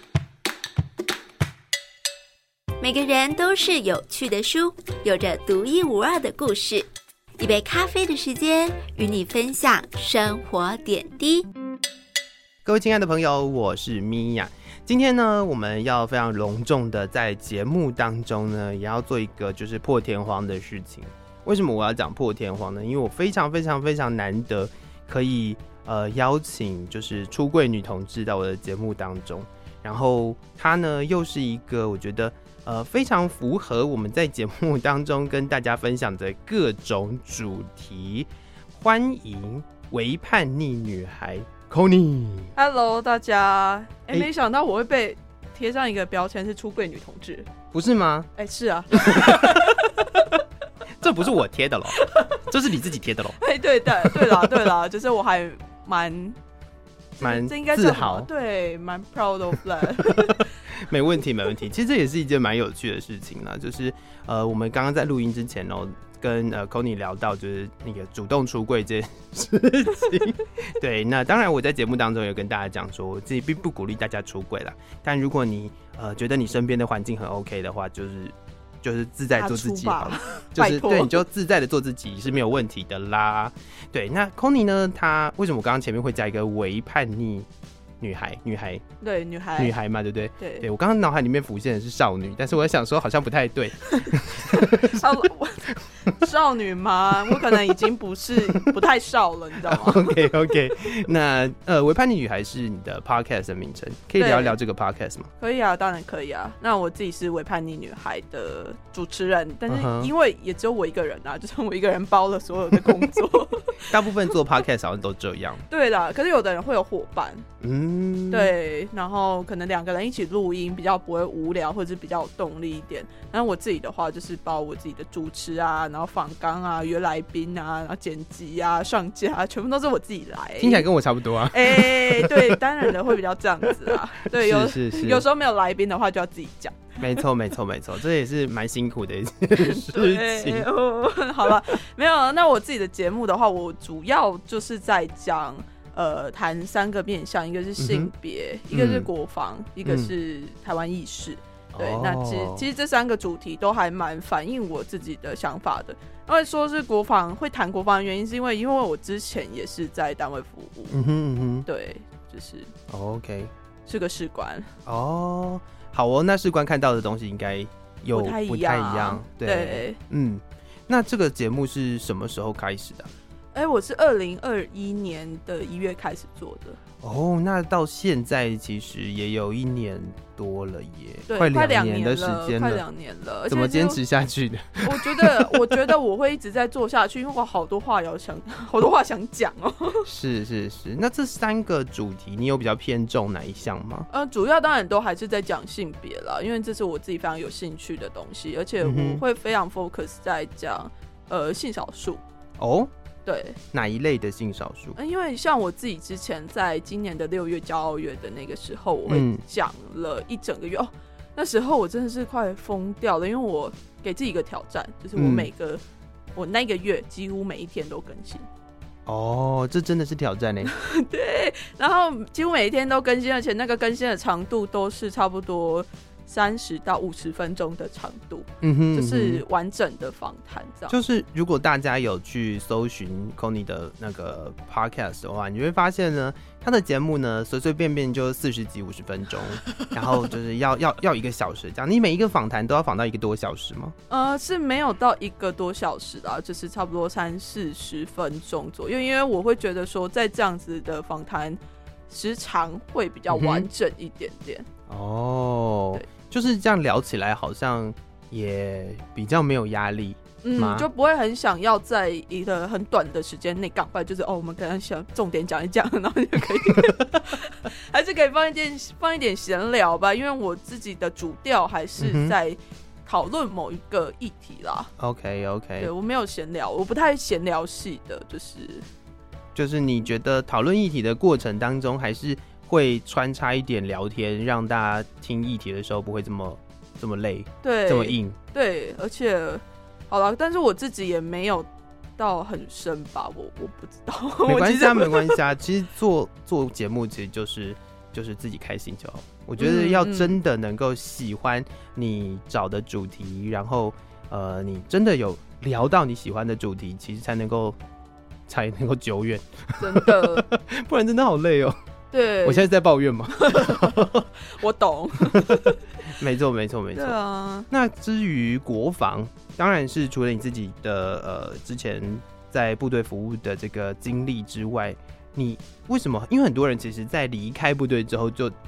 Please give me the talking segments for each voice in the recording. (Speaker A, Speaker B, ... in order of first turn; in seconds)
Speaker A: 2.8-11.5
Speaker B: 12.6-42.5, 47.7-48.3, 49.1-49.7, 51.0-53.4, 54.0-54.7, 57.2-58.3, 60.0-87.5, 88.0-88.8, 89.6-95.1, 97.3-97.6, 99.7-105.3, 109.7-110.1, 113.9-115.6, 117.6-118.5, 130.6-132.6, 133.8-135.2, 137.0-140.7, 147.8-148.1, 148.7-149.1, 149.8-150.1, 151.7-152.6, 160.9-161.7, 162.9-163.5, 164.8-173.1, 177.0-182.8, 183.5-185.8, 190.1-194.1, 198.8-199.2, 202.6-202.9, 203.7-205.0, 209.1-209.4, 215.2-215.5, 219.1-220.7, 228.6-229.4, 230.9-243.9, 253.3-253.7, 254.9-260.9, 272.0-272.3, 275.0-275.9, 279.6-288.4, 294.4-307.8, 308.5-311.8, 312.4-314.3, 315.3-317.1, 317.7-328.5
Speaker C: 42.5-47.5, 48.4-50.4, 51.9-52.4, 53.4-56.4, 57.2-60.5, 79.3-81.2, 89.0-89.7, 90.4-90.7, 93.9-100.5, 104.2-104.6, 105.4-114.0, 115.7-117.5, 118.3-130.8, 131.5-137.0, 139.6-160.9, 161.7-162.7, 163.8-164.7, 168.1-170.0, 173.5-176.8, 181.3-184.0, 184.8-190.1, 194.1-202.2, 203.2-203.6, 204.9-215.8, 216.3-218.5, 220.7-230.9, 244.1-254.7, 260.4-274.9, 275.8-278.9, 287.6-291.7, 292.2-295.4, 299.6-300.4, 309.8-310.4, 312.1-312.7, 313.4-315.8, 316.9-317.7